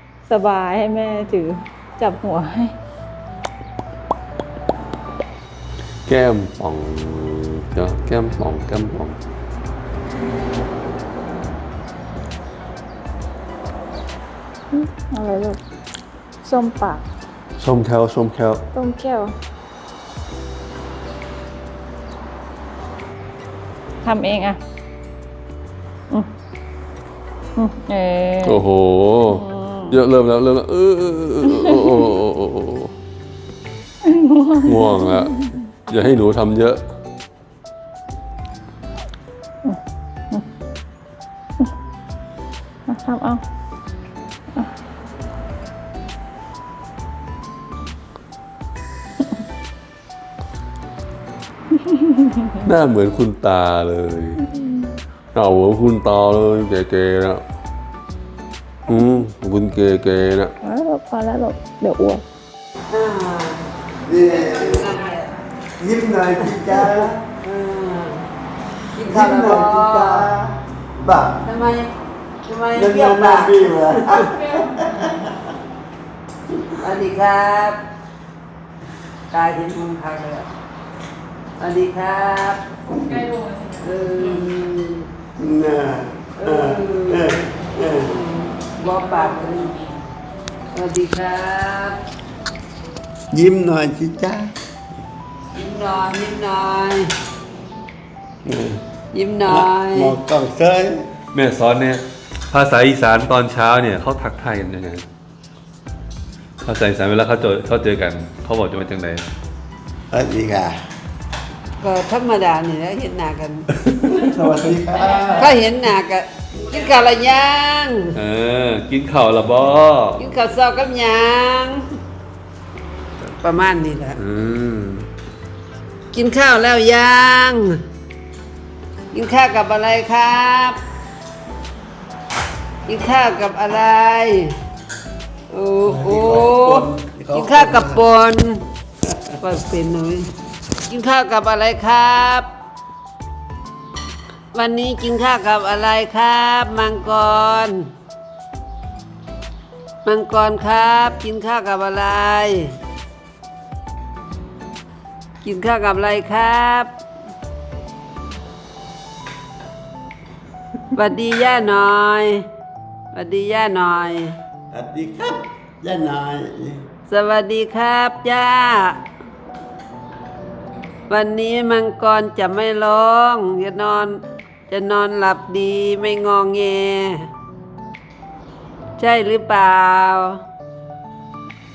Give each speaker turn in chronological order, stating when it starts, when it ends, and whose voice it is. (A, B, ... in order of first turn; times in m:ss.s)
0:00.2-0:02.7 A
0:06.1-0:09.2 B
0:14.7-0:15.6 A
0:16.4-0:17.0 A
0:17.6-0:18.6 B
0:18.7-0:19.3 A
0:24.0-0:24.6 A
0:27.6-0:28.6 A
0:28.4-0:32.9 B
0:29.3-0:30.0 A
0:31.4-0:31.9 A
0:34.0-0:35.6 A
0:34.6-0:35.3 B
0:35.9-0:36.8 B
0:42.9-0:43.4 A
0:51.8-0:52.6 A
0:52.6-0:54.4 B
0:54.4-0:54.9 A
0:55.3-0:57.4 B
0:58.9-1:00.5 B
1:00.6-1:02.2 A
1:02.9-1:03.6 C
1:04.0-1:04.9 D
1:04.1-1:05.4 C
1:05.8-1:07.2 D
1:06.4-1:08.2 C
1:09.0-1:10.3 C
1:09.0-1:11.4 D
1:11.4-1:11.9 C
1:12.4-1:14.4 C
1:12.7-1:15.1 D
1:14.3-1:15.2 A
1:16.8-1:17.8 C
1:19.3-1:20.5 C
1:21.6-1:22.9 C
1:23.0-1:23.9 A
1:23.8-1:25.1 C
1:25.4-1:28.0 D
1:26.4-1:27.4 C
1:27.9-1:29.9 C
1:30.7-1:32.0 C
1:33.3-1:34.5 D
1:35.5-1:37.1 C
1:38.4-1:38.8 B
1:39.1-1:40.2 C
1:39.4-1:41.1 D
1:41.3-1:45.0 B
1:46.6-1:49.2 B
1:50.1-1:50.8 D
1:51.8-1:53.7 C
1:53.8-1:54.1 B
1:54.1-1:55.4 D
1:55.1-1:58.2 C
1:58.1-2:00.2 B
2:00.2-2:01.9 C
2:03.2-2:04.2 C
2:04.2-2:05.1 B
2:06.1-2:07.8 C
2:09.1-2:10.8 C
2:12.9-2:14.6 C
2:15.5-2:18.6 C
2:15.9-2:18.0 D
2:19.4-2:20.3 C
2:20.9-2:22.5 C
2:24.5-2:27.9 C
2:30.0-2:32.7 C
2:35.4-2:36.9 C
2:40.9-2:42.4 C
2:43.1-2:44.3 C
2:44.7-2:46.8 D
2:47.1-2:49.0 C
2:51.1-2:57.3 C
2:59.0-3:00.4 C